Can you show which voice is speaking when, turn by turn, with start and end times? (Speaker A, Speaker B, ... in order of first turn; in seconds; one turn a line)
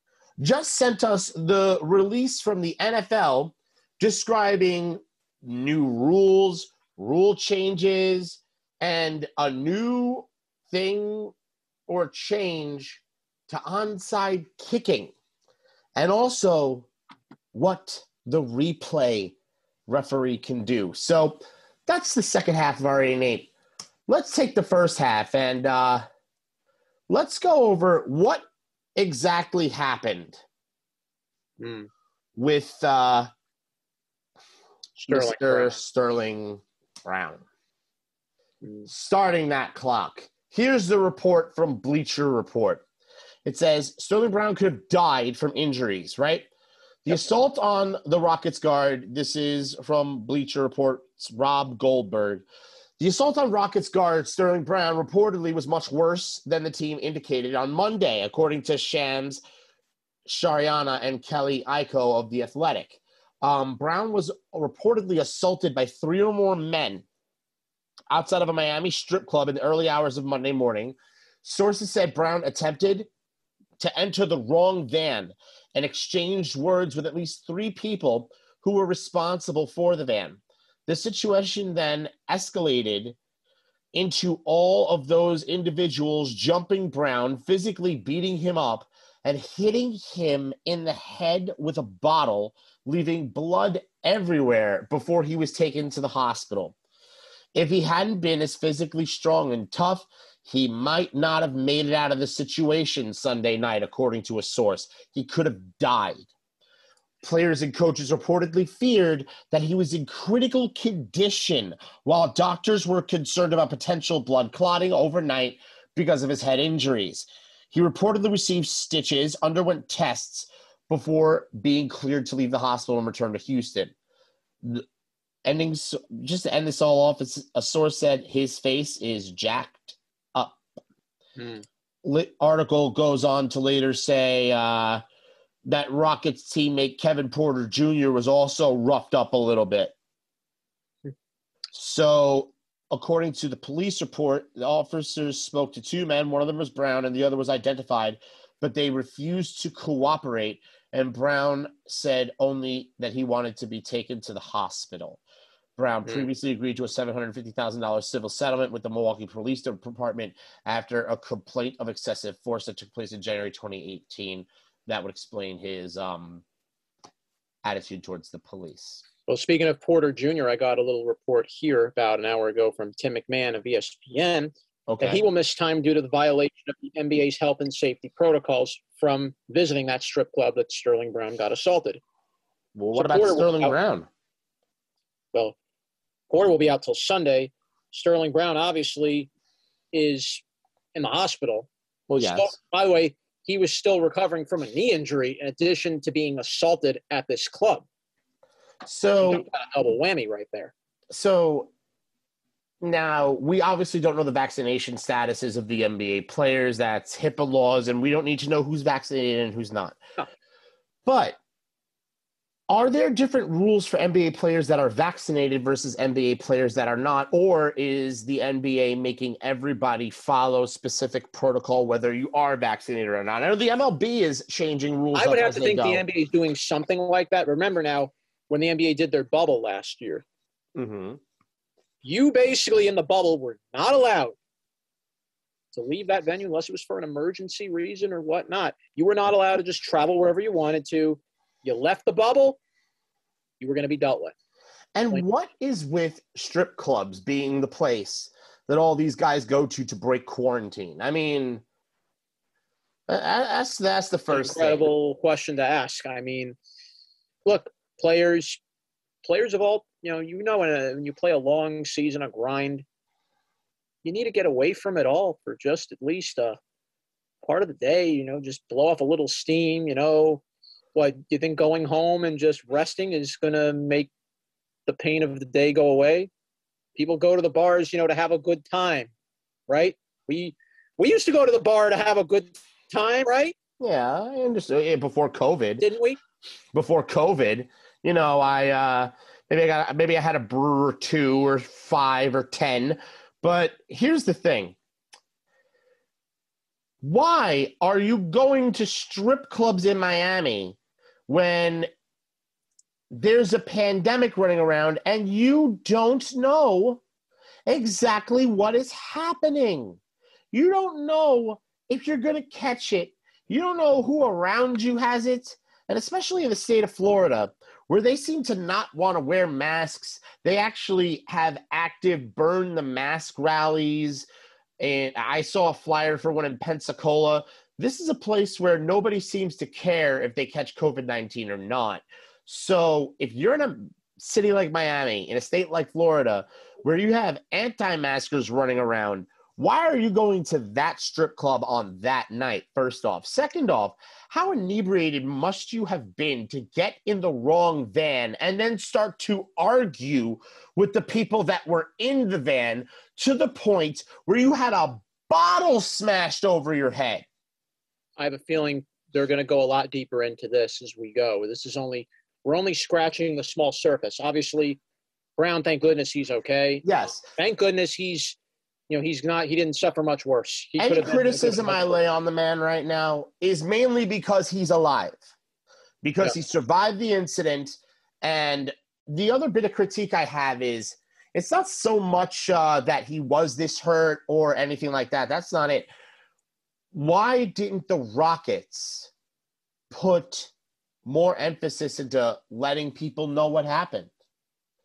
Speaker A: 0.4-11.3
Speaker A: 11.9-15.1
Speaker A: 15.9-16.9
Speaker A: 17.5-19.4
Speaker A: 19.9-23.5
Speaker A: 24.1-26.1
Speaker A: 27.1-30.4
Speaker B: 31.6-31.9
Speaker A: 32.4-33.3
Speaker B: 35.0-35.8
Speaker A: 35.1-37.4
Speaker A: 38.9-42.8
Speaker A: 43.5-46.5
Speaker A: 47.0-52.4
Speaker A: 53.0-59.4
Speaker A: 60.2-67.0
Speaker A: 68.1-73.1
Speaker A: 73.8-83.2
Speaker A: 83.9-96.8
Speaker A: 97.5-106.3
Speaker A: 107.2-123.9
Speaker A: 125.4-130.6
Speaker B: 131.4-131.6
Speaker A: 132.0-135.0
Speaker A: 135.7-139.9
Speaker A: 141.7-155.2
Speaker A: 155.8-166.4
Speaker A: 167.6-169.0
Speaker B: 169.3-182.0
Speaker A: 174.9-175.2
Speaker A: 182.7-184.1
Speaker B: 182.9-183.8
Speaker B: 186.3-189.3
Speaker B: 189.9-190.4
Speaker B: 190.9-197.9
Speaker A: 192.1-192.5
Speaker A: 198.8-199.4
Speaker B: 199.2-200.7
Speaker A: 201.1-201.7
Speaker A: 202.8-210.0
Speaker A: 211.1-211.4
Speaker A: 212.7-226.1
Speaker B: 225.1-230.2
Speaker A: 230.8-231.2
Speaker B: 232.0-234.3
Speaker B: 235.7-242.6
Speaker B: 243.6-244.3
Speaker A: 244.9-251.6
Speaker A: 253.1-254.8
Speaker B: 254.3-256.6
Speaker B: 257.4-258.6
Speaker B: 259.2-262.8
Speaker B: 264.0-266.6
Speaker B: 267.4-270.4
Speaker B: 270.9-274.1
Speaker B: 274.9-276.3
Speaker B: 276.9-279.1
Speaker B: 279.7-283.5
Speaker A: 283.8-285.8
Speaker B: 285.8-286.2
Speaker A: 286.7-294.8
Speaker A: 297.0-300.8
Speaker A: 301.3-301.9
Speaker A: 303.1-307.0
Speaker A: 307.6-310.0
Speaker A: 310.5-324.2
Speaker A: 324.8-357.2
Speaker B: 358.2-364.8
Speaker B: 365.4-368.4
Speaker A: 366.8-367.2
Speaker B: 368.9-372.0
Speaker A: 370.8-375.3
Speaker A: 376.0-385.9
Speaker A: 386.9-389.1
Speaker A: 389.9-390.5
Speaker A: 391.0-394.1